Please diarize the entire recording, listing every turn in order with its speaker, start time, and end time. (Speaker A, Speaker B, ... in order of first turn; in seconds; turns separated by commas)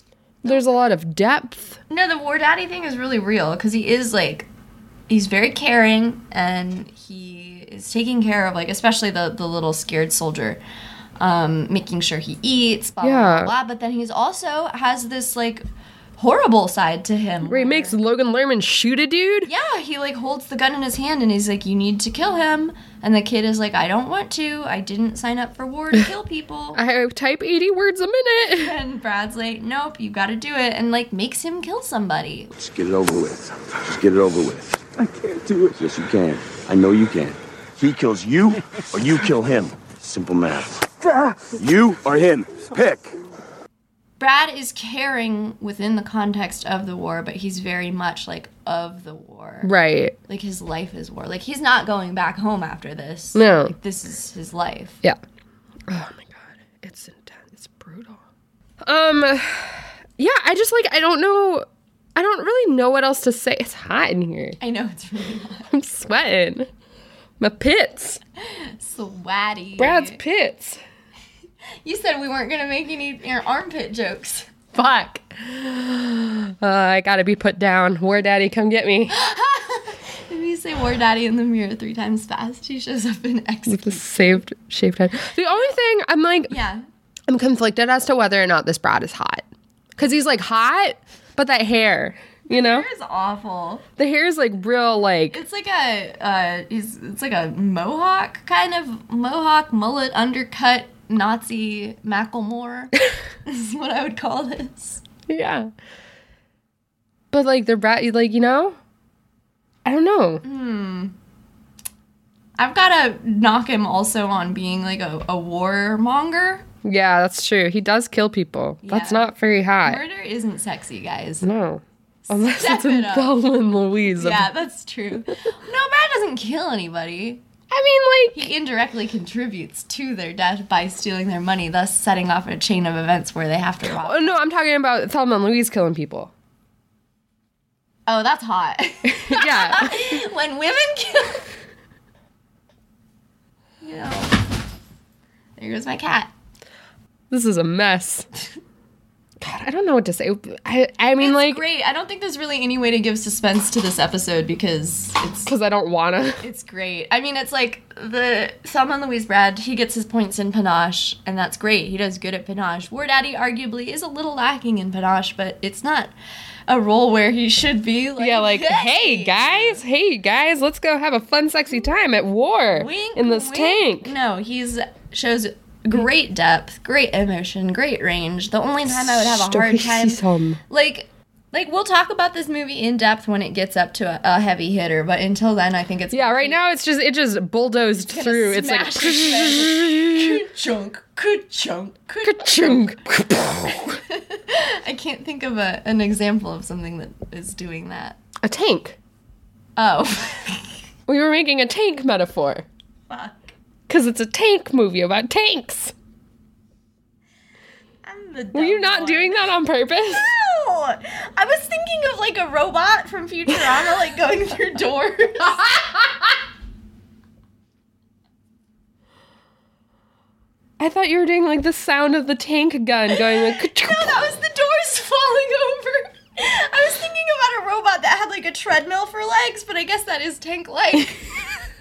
Speaker A: 0.4-1.8, Speaker B: 0.4-0.8, Speaker B: 1.9-4.5, Speaker B: 5.1-10.6, Speaker B: 11.2-15.6, Speaker A: 13.0-13.5, Speaker B: 16.2-17.9, Speaker A: 17.4-19.5, Speaker B: 19.4-26.8, Speaker A: 26.7-28.8, Speaker B: 28.5-32.5, Speaker C: 32.5-43.1, Speaker B: 44.2-49.7, Speaker A: 49.6-50.1, Speaker B: 50.3-55.0, Speaker A: 53.3-53.7, Speaker A: 55.9-58.2, Speaker A: 58.8-64.6, Speaker B: 64.6-65.7, Speaker A: 65.7-66.7, Speaker A: 67.4-68.2, Speaker B: 68.4-70.2, Speaker A: 69.8-70.8, Speaker B: 71.8-74.5, Speaker A: 74.7-79.1, Speaker B: 79.1-84.4, Speaker A: 83.7-86.5, Speaker B: 86.5-86.8, Speaker A: 87.3-89.4, Speaker A: 90.0-92.9, Speaker B: 92.5-93.8, Speaker A: 94.0-95.4, Speaker B: 95.3-105.0, Speaker A: 105.3-105.7, Speaker A: 107.3-108.8, Speaker A: 109.8-110.4, Speaker B: 110.4-111.1, Speaker B: 112.6-116.7, Speaker A: 116.8-120.0, Speaker B: 118.8-119.3, Speaker B: 119.8-121.5, Speaker A: 121.4-124.5, Speaker B: 122.3-123.3, Speaker B: 124.2-127.4, Speaker A: 127.7-128.5, Speaker B: 128.3-134.4, Speaker A: 134.0-136.3, Speaker B: 138.1-141.5, Speaker A: 139.0-140.2, Speaker B: 143.8-144.4, Speaker B: 145.6-146.3, Speaker A: 147.3-148.3, Speaker A: 149.4-151.6, Speaker B: 151.2-155.5, Speaker A: 155.4-156.4, Speaker B: 156.4-166.1, Speaker B: 166.7-169.8, Speaker A: 168.2-174.1, Speaker B: 172.7-186.6, Speaker A: 178.8-180.6, Speaker A: 186.1-190.4, Speaker B: 188.1-192.9, Speaker A: 192.2-194.0, Speaker B: 193.7-198.2, Speaker A: 198.4-199.0, Speaker B: 199.8-200.8, Speaker A: 201.1-202.7, Speaker B: 203.1-203.5, Speaker A: 203.9-205.9, Speaker B: 208.0-209.5, Speaker A: 208.5-210.3, Speaker B: 210.1-216.2, Speaker A: 220.8-224.3, Speaker B: 223.3-231.3